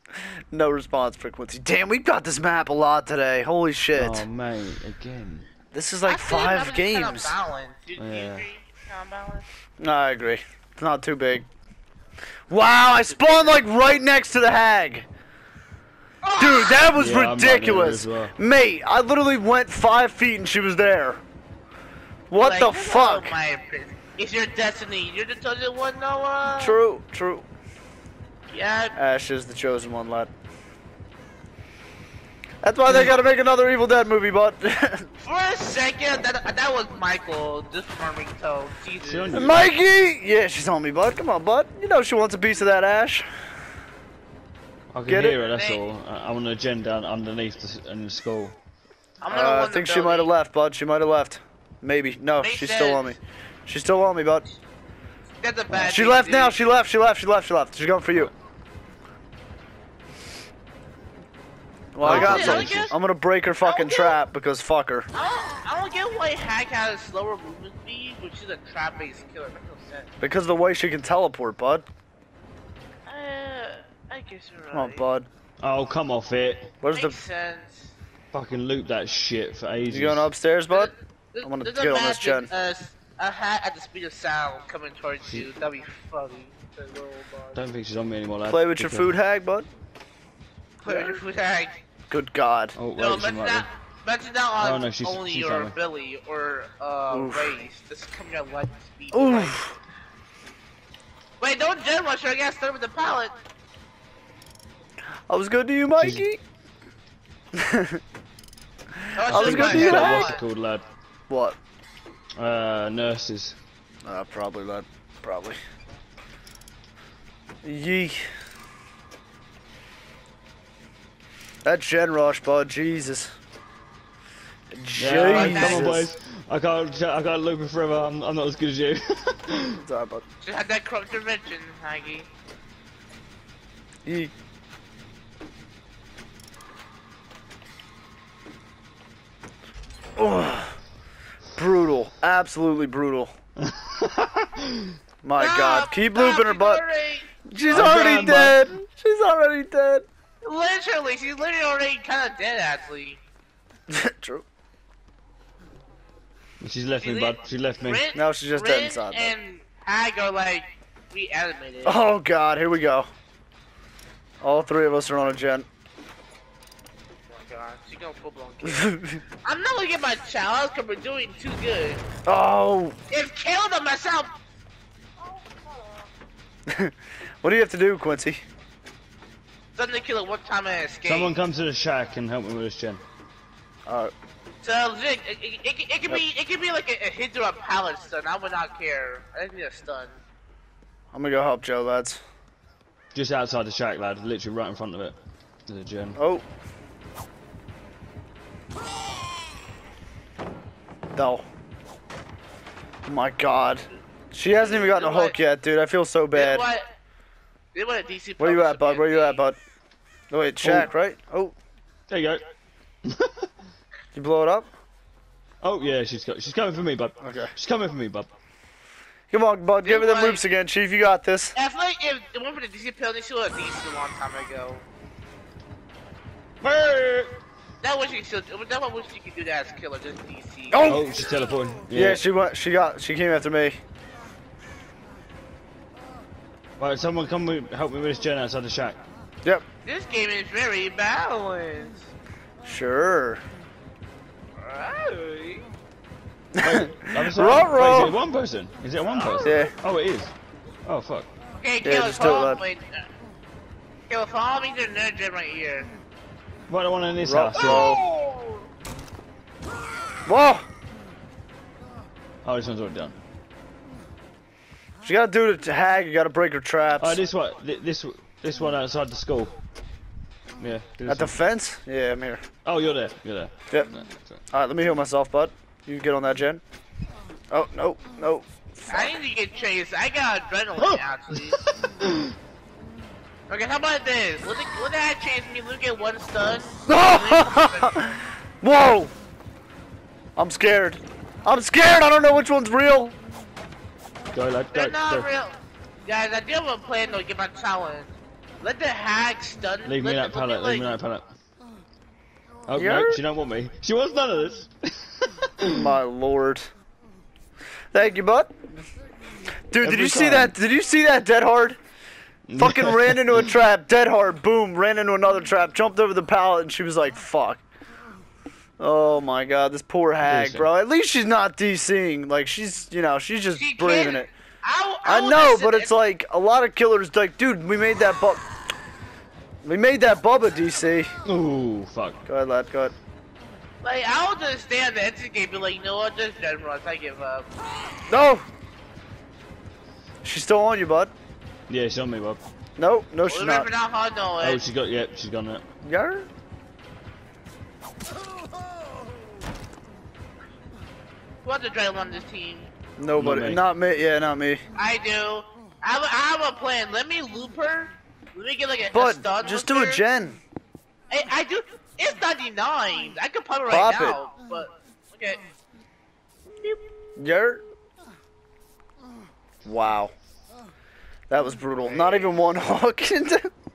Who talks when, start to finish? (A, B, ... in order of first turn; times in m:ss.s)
0:00.5-0:04.2 A
0:03.9-0:05.5 B
0:05.7-0:07.4 A
0:06.0-0:09.5 C
0:08.0-0:08.4 B
0:09.8-0:11.5 A
0:12.5-0:15.1 A
0:13.0-0:13.6 C
0:16.2-0:16.9 C
0:16.4-0:21.2 A
0:16.9-0:18.3 B
0:22.3-0:23.4 A
0:22.4-0:26.8 C
0:26.6-0:27.5 A
0:28.5-0:29.0 C
0:29.0-0:30.3 A
0:32.6-0:35.1 A
0:35.2-0:39.5 C
0:39.1-0:39.6 B
0:39.3-0:43.2 A
0:44.9-0:48.6 B
0:45.1-0:45.4 A
0:45.4-0:45.9 C
0:49.2-0:50.3 C
0:49.3-0:54.4 A
0:52.4-0:53.2 C
0:55.4-0:56.6 C
0:55.7-0:58.3 A
1:02.0-1:05.1 A
1:02.0-1:02.9 B
1:02.0-1:02.9 C
1:03.6-1:04.2 C
1:05.1-1:10.1 C
1:10.2-1:11.8 A
1:13.1-1:15.0 C
1:14.7-1:15.3 A
1:15.6-1:16.7 B
1:16.8-1:17.2 A
1:16.9-1:17.9 C
1:18.3-1:20.3 B
1:19.9-1:20.9 A
1:20.7-1:27.6 C
1:21.4-1:22.5 A
1:27.6-1:29.2 B
1:28.4-1:29.7 A
1:30.8-1:31.2 A
1:30.8-1:31.8 C
1:32.1-1:32.8 A
1:32.8-1:33.7 B
1:33.0-1:39.6 C
1:34.6-1:35.8 B
1:37.1-1:37.6 A
1:39.1-1:39.8 A
1:41.4-1:43.4 C
1:45.3-1:46.4 A
1:46.0-1:46.3 B
1:47.6-1:48.0 A
1:49.2-1:50.4 C
1:49.2-1:50.3 A
1:49.3-1:50.8 B
1:51.3-1:51.6 A
1:52.4-1:53.6 B
1:54.0-1:55.6 A
1:57.6-1:58.2 A
2:01.6-2:03.3 A
2:04.7-2:06.1 A
2:05.0-2:09.8 B
2:05.2-2:06.0 C
2:09.8-2:10.2 A
2:10.4-2:12.3 C
2:14.1-2:14.3 A
2:20.2-2:20.8 A
2:21.6-2:23.3 A
2:23.7-2:24.9 B
2:25.2-2:26.8 A
2:25.4-2:28.4 C
2:27.5-2:30.0 A
2:27.7-2:28.6 B
2:30.4-2:33.2 C
2:33.9-2:34.4 A
2:36.6-2:38.0 B
2:37.0-2:42.0 C
2:38.1-2:39.3 A
2:41.8-2:43.1 A
2:44.4-2:45.7 A
2:47.3-2:52.0 C
2:48.6-2:49.2 A
2:52.3-2:53.0 A
2:53.1-2:54.3 C
2:56.7-2:58.4 A
2:59.8-3:01.4 C
3:01.1-3:03.0 B
3:03.9-3:04.1 A
3:04.6-3:10.2 C
3:11.1-3:12.2 A
3:13.1-3:15.2 B
3:15.7-3:16.2 B
3:16.2-3:16.4 A
3:21.2-3:21.4 A
3:23.1-3:26.7 A
3:24.5-3:25.4 C
3:26.3-3:26.9 C
3:27.7-3:29.4 C
3:28.4-3:29.6 A
3:30.3-3:31.6 A
3:30.6-3:30.9 B
3:32.1-3:32.4 B
3:33.1-3:33.5 B
3:34.1-3:34.7 A
3:35.6-3:38.3 B
3:37.2-3:37.5 A
3:39.3-3:41.6 A
3:39.8-3:40.5 C
3:41.6-3:44.8 C
3:46.6-3:47.3 B
3:47.8-3:50.9 C
3:50.7-3:51.2 A
3:50.9-3:52.2 B
3:51.9-3:53.8 A
3:56.8-3:59.0 B
3:59.8-4:02.1 C
4:02.6-4:03.4 A
4:04.6-4:05.7 C
4:06.6-4:08.2 A
4:06.6-4:10.3 B
4:09.4-4:09.7 A
4:10.8-4:11.3 B
4:11.6-4:13.0 C
4:11.8-4:12.6 A
4:14.1-4:15.9 C
4:16.7-4:18.0 B
4:17.2-4:18.0 A
4:17.6-4:18.5 C
4:20.3-4:20.7 A
4:22.4-4:23.2 B
4:25.0-4:27.2 A
4:27.0-4:29.6 B
4:30.6-4:31.4 B
4:31.1-4:32.4 A
4:32.6-4:34.4 B
4:34.5-4:36.6 A
4:37.5-4:39.2 A
4:38.9-4:41.6 C
4:41.9-4:42.3 B
4:43.5-4:48.1 C
4:46.9-4:48.1 A
4:48.6-4:49.1 A
4:50.4-4:53.2 A
4:54.3-4:55.3 B
4:54.7-5:01.0 C
4:59.8-5:01.3 B
5:02.7-5:05.7 B
5:02.8-5:03.2 A
5:05.7-5:06.7 A
5:07.9-5:08.5 A
5:09.7-5:11.8 A
5:09.8-5:10.6 B
5:12.5-5:13.5 B
5:12.6-5:17.6 A
5:18.8-5:24.3 A
5:20.2-5:20.7 B
5:23.5-5:26.0 C
5:25.0-5:28.4 A
5:29.6-5:31.1 A
5:31.2-5:32.2 B
5:32.3-5:32.9 A
5:33.8-5:37.5 C
5:38.1-5:38.4 A
5:40.2-5:41.1 A
5:41.7-5:42.4 B
5:42.8-5:43.7 A
5:43.3-5:44.6 C
5:44.4-5:45.6 B
5:45.8-5:46.3 A
5:51.4-5:52.7 C
5:53.0-5:54.6 A
5:53.1-5:53.6 B
5:54.8-6:00.0 C
5:58.9-6:00.4 A
6:01.1-6:05.4 C
6:03.7-6:04.2 A
6:07.2-6:07.6 A
6:09.6-6:10.1 A
6:11.3-6:13.5 A
6:11.8-6:12.3 C